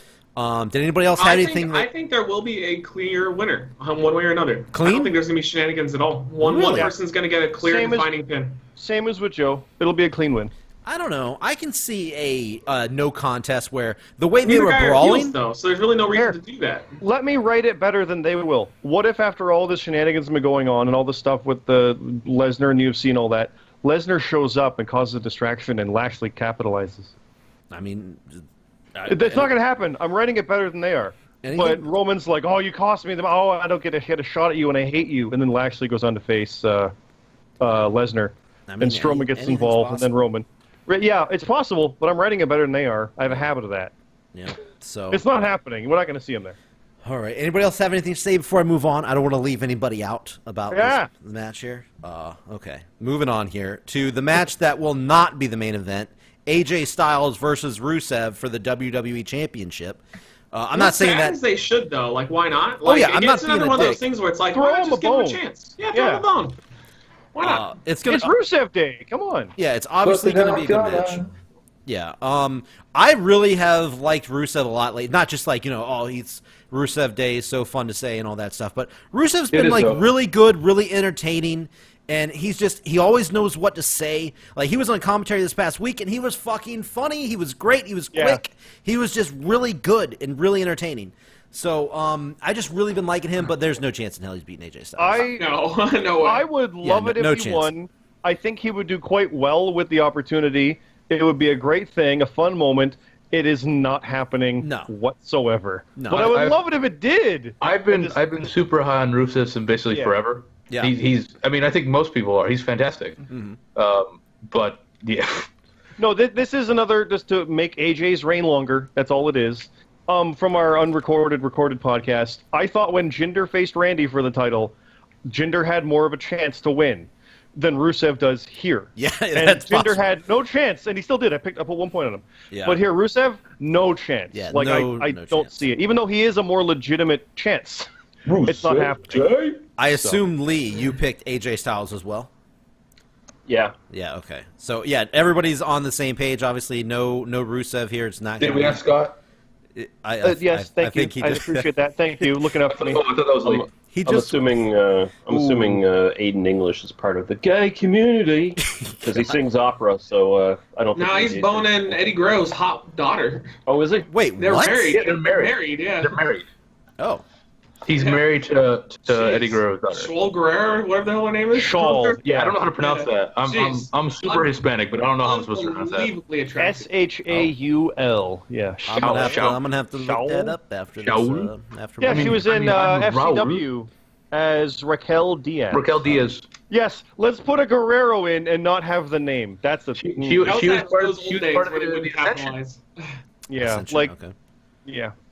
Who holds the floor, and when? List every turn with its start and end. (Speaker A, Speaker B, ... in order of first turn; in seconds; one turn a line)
Speaker A: 0.3-1.9
Speaker B: 1.2-8.6
Speaker A: 4.7-5.1
Speaker A: 6.4-6.9
Speaker C: 7.6-8.1
Speaker C: 8.8-10.5
Speaker A: 10.8-15.3
Speaker B: 14.4-16.9
Speaker C: 17.0-27.1
Speaker A: 27.7-28.4
Speaker A: 28.9-29.5
Speaker C: 29.1-36.9
Speaker A: 31.4-31.9
Speaker C: 37.6-43.9
Speaker A: 38.7-40.1
Speaker A: 44.3-45.2
Speaker C: 45.1-46.6
Speaker A: 47.0-61.4
Speaker C: 50.7-51.1
Speaker B: 60.7-66.6
Speaker A: 62.8-64.0
Speaker C: 64.5-65.4
Speaker C: 65.9-66.2
Speaker B: 67.3-67.7
Speaker A: 67.4-68.3
Speaker C: 68.1-69.5
Speaker A: 69.6-71.2
Speaker D: 70.0-71.3
Speaker A: 71.8-95.3
Speaker D: 79.5-80.1
Speaker C: 88.1-88.4
Speaker C: 95.0-95.4
Speaker B: 95.4-96.5
Speaker C: 96.2-108.2
Speaker A: 96.8-97.7
Speaker A: 104.6-104.9
Speaker A: 106.0-106.4
Speaker D: 106.1-106.6
Speaker D: 107.6-113.2
Speaker A: 113.3-113.6
Speaker D: 113.7-115.5
Speaker C: 116.0-137.9
Speaker A: 128.9-130.1
Speaker A: 132.5-132.8
Speaker A: 134.3-135.7
Speaker D: 138.3-140.2
Speaker C: 138.4-139.3
Speaker A: 139.8-142.3
Speaker E: 143.5-143.7
Speaker A: 143.9-148.8
Speaker D: 148.4-149.2
Speaker A: 149.7-151.7
Speaker C: 150.2-153.0
Speaker D: 152.7-153.7
Speaker E: 153.4-161.9
Speaker A: 153.9-154.6
Speaker A: 155.3-155.8
Speaker A: 158.8-159.3
Speaker B: 160.9-163.5
Speaker E: 163.7-164.1
Speaker A: 164.1-164.9
Speaker B: 164.4-166.2
Speaker D: 164.9-166.4
Speaker A: 167.0-167.2
Speaker D: 167.8-170.1
Speaker B: 168.0-168.2
Speaker B: 169.1-174.5
Speaker C: 171.5-172.2
Speaker D: 172.2-176.1
Speaker B: 175.2-176.9
Speaker C: 176.6-179.4
Speaker A: 178.8-182.4
Speaker D: 179.0-179.6
Speaker C: 179.9-180.6
Speaker D: 181.0-181.5
Speaker C: 182.0-185.9
Speaker D: 182.0-183.6
Speaker D: 185.7-186.4
Speaker C: 186.7-190.6
Speaker D: 189.9-192.6
Speaker B: 190.4-192.8
Speaker C: 193.5-194.1
Speaker A: 193.6-194.3
Speaker C: 194.8-195.1